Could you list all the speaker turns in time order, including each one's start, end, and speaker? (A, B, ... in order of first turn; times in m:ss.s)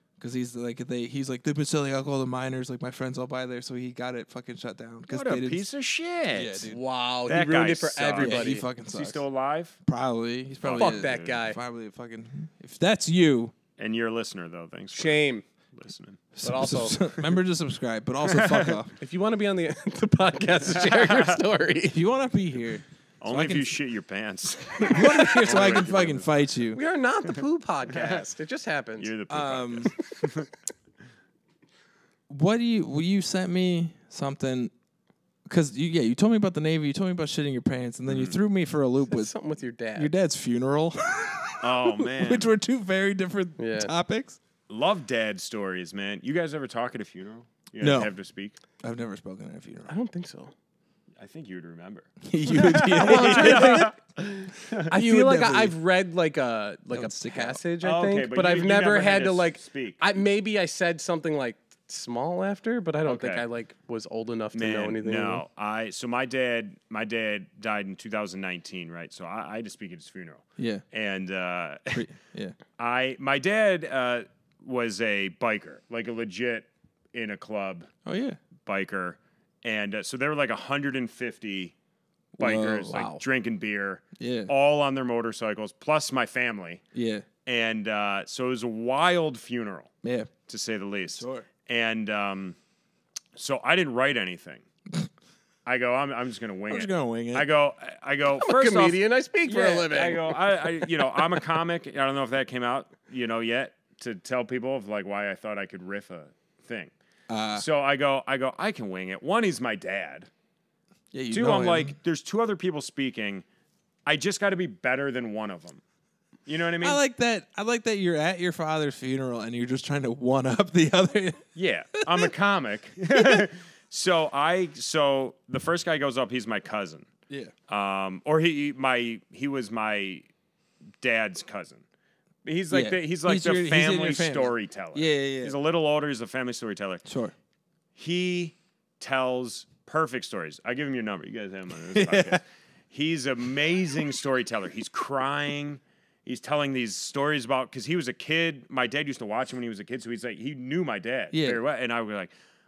0:00.2-0:05.6 A
0:05.1-0:06.7 B
0:06.3-0:06.8 A
0:06.7-0:08.6 C
0:07.3-0:09.8 B
0:08.2-0:09.2 A
0:09.8-0:13.5 A
0:10.6-0:11.4 B
0:10.7-0:11.6 C
0:13.8-0:16.2 B
0:14.9-0:15.4 C
0:16.3-0:18.9 A
0:16.4-0:17.0 C
0:18.2-0:18.8 B
0:19.0-0:22.0 C
0:20.9-0:21.4 B
0:21.9-0:23.8 A
0:23.2-0:26.3 B
0:24.8-0:26.8 A
0:26.7-0:29.1 C
0:27.9-0:28.2 B
0:29.0-0:30.5 B
0:29.3-0:29.9 A
0:32.3-0:34.7 A
0:35.5-0:39.3 A
0:38.1-0:38.4 B
0:39.1-0:40.1 C
0:40.0-0:44.4 A
0:41.6-0:42.5 B
0:43.6-0:43.9 C
0:44.7-0:48.6 B
0:47.8-0:48.1 A
0:48.8-0:49.9 A
0:49.9-0:50.5 C
0:51.2-0:54.9 B
0:52.2-0:53.9 A
0:52.8-0:53.9 C
0:54.7-0:55.7 A
0:54.9-1:05.4 C
0:56.9-0:57.6 A
0:57.8-1:00.0 B
1:03.0-1:03.4 B
1:04.5-1:12.0 B
1:10.6-1:10.8 A
1:11.9-1:12.6 A
1:12.8-1:17.9 B
1:18.0-1:18.4 A
1:18.6-1:21.7 B
1:22.4-1:23.0 A
1:22.4-1:26.8 B
1:22.9-1:23.2 C
1:24.2-1:24.5 A
1:26.9-1:27.2 A
1:27.4-1:29.9 B
1:30.0-1:30.3 A
1:30.5-1:32.6 B
1:31.2-1:31.5 A
1:33.4-1:34.6 B
1:35.6-1:46.9 B
1:36.7-1:37.5 A
1:38.4-1:40.4 C
1:47.3-1:47.6 A
1:47.5-1:50.3 B
1:51.1-1:52.0 A
1:51.3-1:53.4 B
1:54.0-1:55.8 B
1:56.4-1:57.0 B
1:56.8-2:01.4 A
2:01.6-2:07.1 B
2:02.0-2:02.3 A
2:03.1-2:03.4 A
2:07.7-2:10.3 B
2:11.0-2:11.8 B
2:12.4-2:17.0 B
2:12.7-2:15.5 A
2:17.1-2:17.3 A
2:18.0-2:32.3 B
2:21.9-2:22.4 A
2:31.3-2:31.6 A